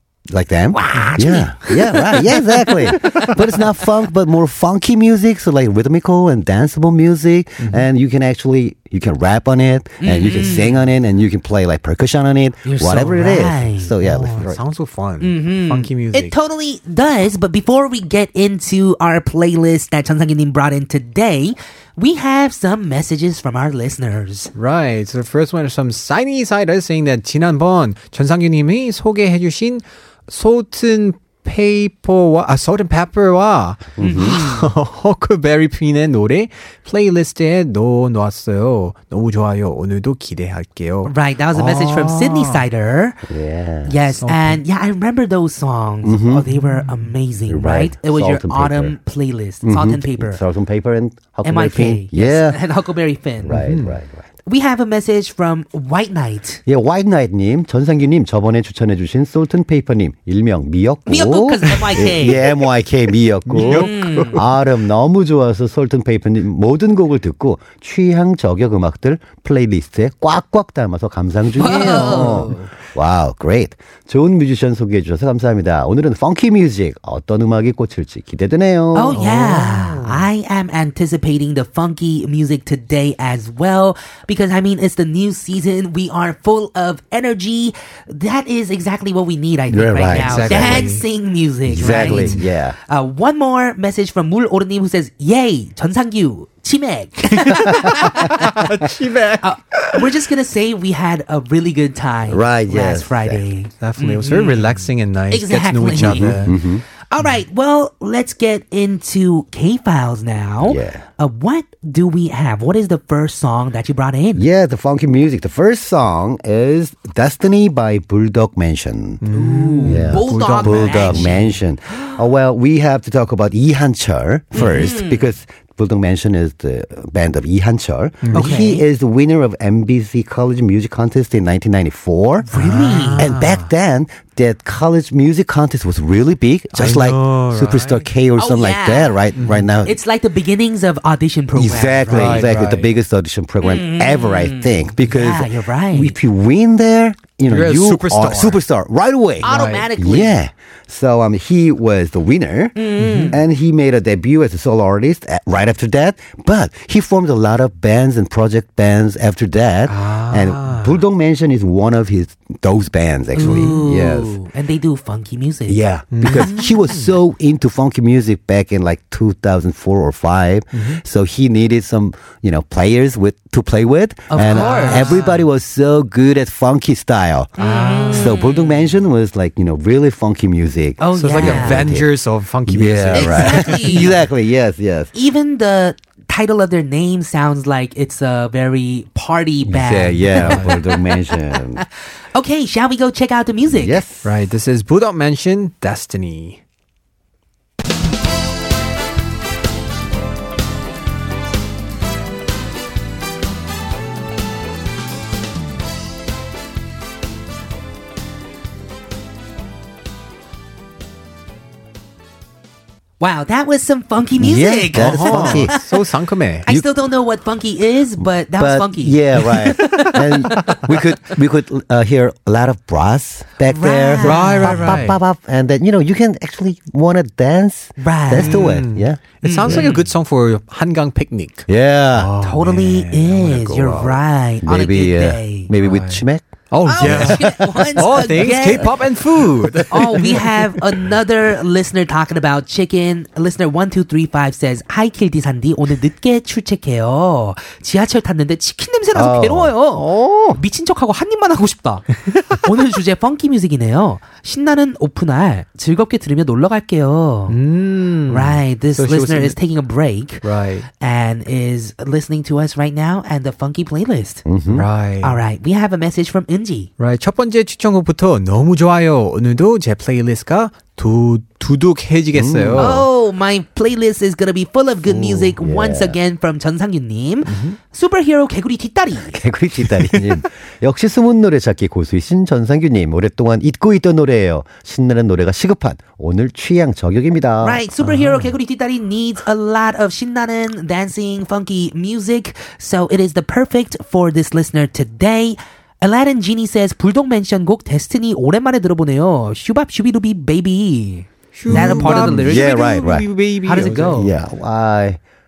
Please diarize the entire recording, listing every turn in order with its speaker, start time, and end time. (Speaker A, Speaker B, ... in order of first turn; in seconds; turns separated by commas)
Speaker A: 0.3-14.6, Speaker B: 0.7-3.1, Speaker C: 0.9-1.2, Speaker C: 7.6-7.8, Speaker B: 10.0-10.8, Speaker B: 12.6-13.9, Speaker C: 14.0-16.3, Speaker B: 15.2-24.5, Speaker C: 24.5-42.6, Speaker A: 34.0-34.4, Speaker B: 34.0-34.7, Speaker B: 41.0-43.2, Speaker A: 43.2-44.0, Speaker B: 43.8-50.4, Speaker C: 44.2-44.6, Speaker A: 46.0-46.5, Speaker C: 46.6-47.0, Speaker A: 47.5-49.0, Speaker A: 49.6-52.6, Speaker B: 51.4-53.6, Speaker A: 53.4-54.3, Speaker C: 53.5-54.0, Speaker B: 54.4-56.6, Speaker A: 56.6-79.2, Speaker B: 61.1-62.4, Speaker C: 63.5-64.4, Speaker B: 63.6-64.4, Speaker B: 71.6-72.7, Speaker C: 71.8-72.5, Speaker B: 78.9-98.6, Speaker C: 79.2-80.2, Speaker A: 89.7-90.9, Speaker C: 90.1-91.0, Speaker A: 91.7-92.8, Speaker C: 91.8-92.4, Speaker C: 97.3-100.1, Speaker B: 99.4-106.5, Speaker A: 102.3-103.4, Speaker C: 103.8-106.5, Speaker A: 106.0-106.8, Speaker B: 107.1-114.5, Speaker A: 110.6-111.0, Speaker A: 114.3-119.2, Speaker C: 119.2-121.5, Speaker B: 119.3-121.5, Speaker A: 119.8-132.5, Speaker B: 124.5-125.3, Speaker C: 128.2-128.6, Speaker B: 128.3-128.8, Speaker B: 132.4-133.3, Speaker C: 132.5-133.7, Speaker A: 133.2-140.0, Speaker C: 136.8-138.1, Speaker B: 138.4-139.2, Speaker C: 139.3-139.7, Speaker B: 139.8-142.5, Speaker A: 141.5-164.4, Speaker C: 142.1-142.9, Speaker B: 143.6-146.2, Speaker C: 147.5-148.6, Speaker B: 149.4-150.4, Speaker C: 149.4-149.8, Speaker B: 152.8-153.4, Speaker C: 153.0-153.4, Speaker C: 159.9-161.0, Speaker B: 163.3-166.7, Speaker C: 163.4-163.8, Speaker A: 165.7-177.6, Speaker C: 166.1-167.1, Speaker C: 170.7-171.0, Speaker B: 174.3-175.2, Speaker C: 174.4-175.4, Speaker C: 177.6-178.4, Speaker B: 177.6-178.7, Speaker A: 178.1-182.1, Speaker B: 181.0-181.9, Speaker C: 181.1-184.1, Speaker A: 182.7-185.1, Speaker B: 183.1-184.2, Speaker B: 185.1-194.0, Speaker A: 189.6-191.8, Speaker C: 190.3-190.8, Speaker A: 193.7-194.3, Speaker C: 194.2-196.6, Speaker B: 213.2-216.0, Speaker A: 214.4-215.7, Speaker C: 214.9-216.7, Speaker B: 216.7-220.1, Speaker A: 218.6-229.9, Speaker B: 223.7-225.1, Speaker C: 224.2-225.2, Speaker B: 228.0-228.7, Speaker C: 228.3-234.2, Speaker B: 229.4-230.1, Speaker A: 231.7-232.3, Speaker B: 232.4-235.7, Speaker A: 234.6-236.4, Speaker C: 235.8-240.5, Speaker B: 236.8-238.9, Speaker A: 237.0-238.7, Speaker B: 239.9-257.6, Speaker A: 249.1-250.6, Speaker C: 257.5-259.6, Speaker B: 258.3-260.4, Speaker C: 260.4-260.9, Speaker B: 261.0-264.4, Speaker A: 264.4-264.9, Speaker C: 264.7-265.4, Speaker B: 265.2-266.9, Speaker C: 267.0-273.1, Speaker A: 272.3-273.0, Speaker B: 272.8-279.4, Speaker A: 275.4-276.2, Speaker C: 277.4-277.8, Speaker A: 279.2-287.8, Speaker C: 279.9-280.3, Speaker B: 287.6-302.9, Speaker C: 288.0-288.5, Speaker C: 301.5-304.3, Speaker A: 301.7-303.3, Speaker B: 303.6-304.3, Speaker A: 304.1-305.2